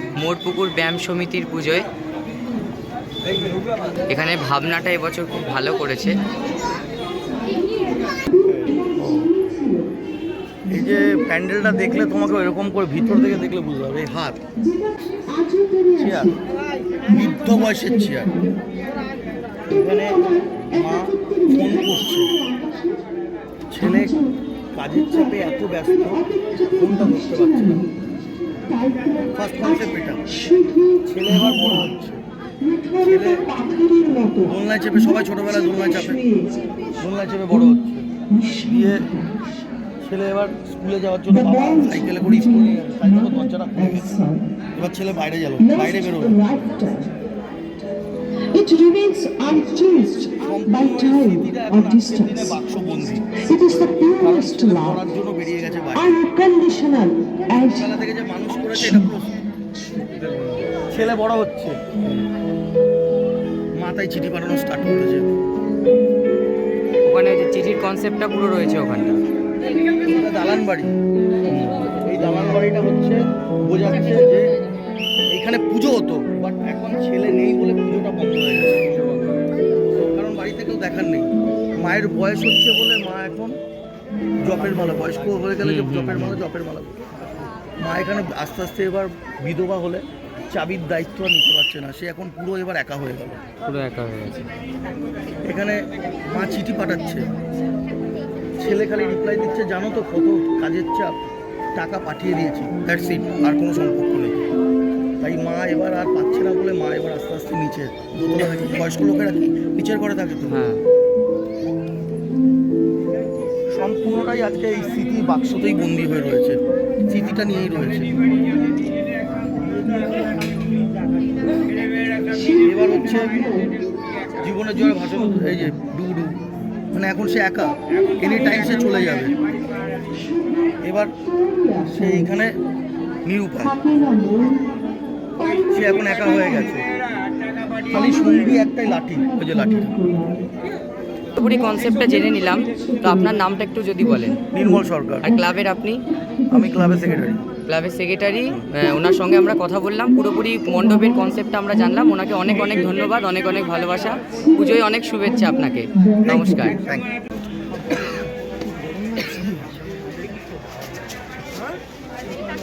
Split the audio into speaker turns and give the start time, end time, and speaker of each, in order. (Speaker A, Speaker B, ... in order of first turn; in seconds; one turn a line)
Speaker A: 0.2-1.9
Speaker A: 4.1-6.2
Speaker B: 7.3-9.9
Speaker C: 8.4-9.3
Speaker B: 10.6-12.3
Speaker C: 10.7-14.4
Speaker B: 13.0-13.4
Speaker B: 14.6-18.6
Speaker C: 15.9-16.3
Speaker C: 17.1-18.3
Speaker C: 19.7-22.3
Speaker B: 19.7-23.2
Speaker C: 23.7-24.2
Speaker B: 23.8-24.4
Speaker C: 24.7-26.2
Speaker B: 24.9-28.1
Speaker C: 26.8-27.8
Speaker B: 28.6-31.9
Speaker C: 29.3-30.2
Speaker C: 31.1-32.2
Speaker B: 32.6-36.9
Speaker C: 33.1-33.4
Speaker C: 34.5-36.2
Speaker C: 37.0-38.1
Speaker B: 37.5-39.4
Speaker C: 38.6-39.1
Speaker C: 40.0-44.2
Speaker B: 41.3-44.6
Speaker C: 44.8-46.5
Speaker B: 45.6-47.1
Speaker B: 48.5-52.6
Speaker C: 50.4-53.4
Speaker B: 53.2-55.1
Speaker C: 54.2-56.2
Speaker B: 55.9-58.0
Speaker C: 57.6-59.4
Speaker B: 58.7-59.1
Speaker C: 60.9-61.8
Speaker C: 63.8-65.3
Speaker A: 67.0-69.2
Speaker C: 70.0-70.9
Speaker C: 71.5-74.5
Speaker C: 75.3-79.0
Speaker C: 79.9-81.3
Speaker C: 81.8-83.5
Speaker C: 84.4-86.9
Speaker A: 85.6-86.4
Speaker C: 87.8-93.4
Speaker A: 93.6-94.5
Speaker C: 95.4-97.3
Speaker C: 98.6-101.1
Speaker C: 101.7-104.5
Speaker C: 105.2-110.7
Speaker A: 110.5-110.8
Speaker C: 113.7-118.1
Speaker B: 122.2-123.9
Speaker C: 122.6-123.5
Speaker C: 124.4-126.4
Speaker B: 124.7-125.7
Speaker C: 126.9-129.3
Speaker B: 128.0-129.3
Speaker B: 130.1-132.3
Speaker C: 130.8-131.2
Speaker C: 131.9-132.6
Speaker C: 133.2-133.8
Speaker B: 133.6-134.7
Speaker B: 135.4-136.8
Speaker C: 135.7-136.8
Speaker B: 137.8-140.4
Speaker C: 137.9-139.9
Speaker B: 141.3-143.5
Speaker A: 141.3-144.4
Speaker B: 144.0-145.5
Speaker C: 144.5-145.3
Speaker A: 145.2-146.1
Speaker B: 146.1-147.4
Speaker C: 146.5-147.4
Speaker A: 147.7-156.8
Speaker B: 148.8-152.9
Speaker B: 154.3-156.8
Speaker C: 156.3-157.1